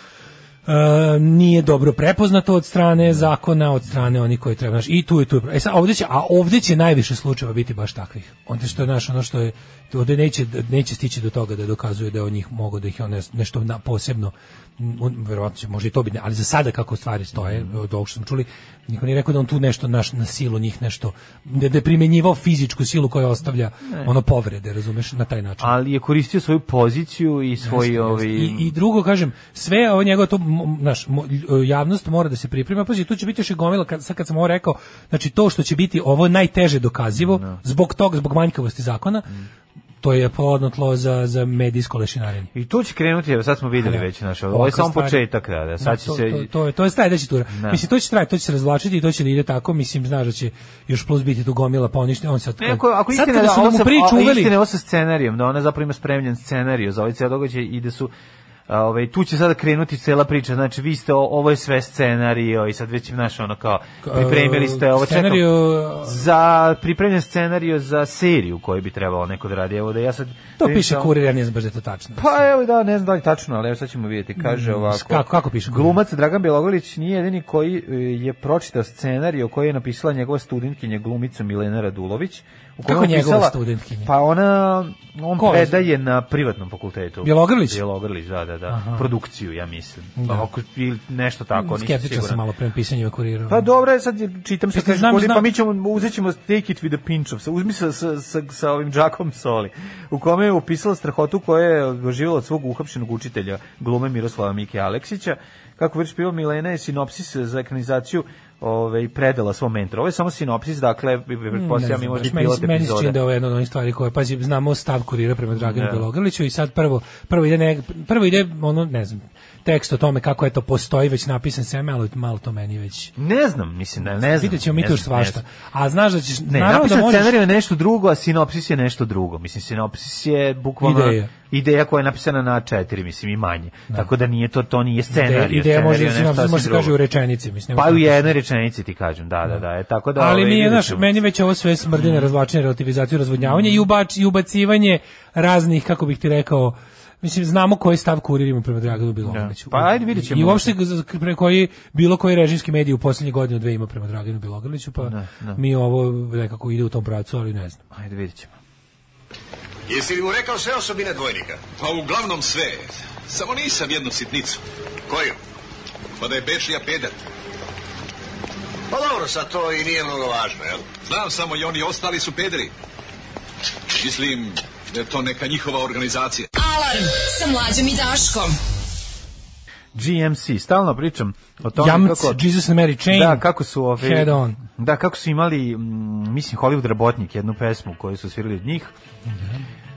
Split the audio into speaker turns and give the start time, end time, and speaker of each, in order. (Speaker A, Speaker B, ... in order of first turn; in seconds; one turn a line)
Speaker A: 0.7-25.7
Speaker B: 17.4-17.7
Speaker B: 25.6-28.7
Speaker A: 27.6-39.3
Speaker B: 37.2-37.5
Speaker A: 40.0-42.5
Speaker B: 42.5-46.5
Speaker A: 43.8-45.2
Speaker A: 45.8-54.5
Speaker B: 47.5-47.8
Speaker B: 52.6-58.1
Speaker B: 58.7-71.1
Speaker A: 64.0-66.2
Speaker A: 70.6-72.3
Speaker B: 72.2-92.4
Speaker A: 74.4-76.0
Speaker A: 82.8-84.1
Speaker A: 85.4-85.8
Speaker A: 87.2-87.8
Speaker A: 88.7-89.1
Speaker A: 90.2-90.5
Speaker A: 91.5-93.6
Speaker B: 93.5-113.2
Speaker A: 94.7-95.5
Speaker A: 111.5-123.1
Speaker B: 115.5-116.0
Speaker B: 123.2-125.4
Speaker A: 124.2-127.4
Speaker B: 126.5-137.0
Speaker A: 130.8-131.3
Speaker A: 135.1-138.3
Speaker B: 137.7-141.2
Speaker A: 140.2-157.8
Speaker B: 141.9-142.3
Speaker B: 143.4-143.8
Speaker B: 149.2-150.7
Speaker B: 155.0-155.6
Speaker B: 157.9-158.5
Speaker C: 159.9-161.7
Speaker D: 161.7-164.6
Speaker C: 165.1-165.3
Speaker D: 166.2-167.2
Speaker C: 168.9-170.8
Speaker D: 171.1-172.7
Speaker D: 173.9-176.5
Speaker E: 176.6-178.6
Speaker B: 179.9-182.4
Speaker A: 181.7-183.4
Speaker B: 183.1-188.9
Speaker A: 184.0-184.6
Speaker A: 189.3-189.6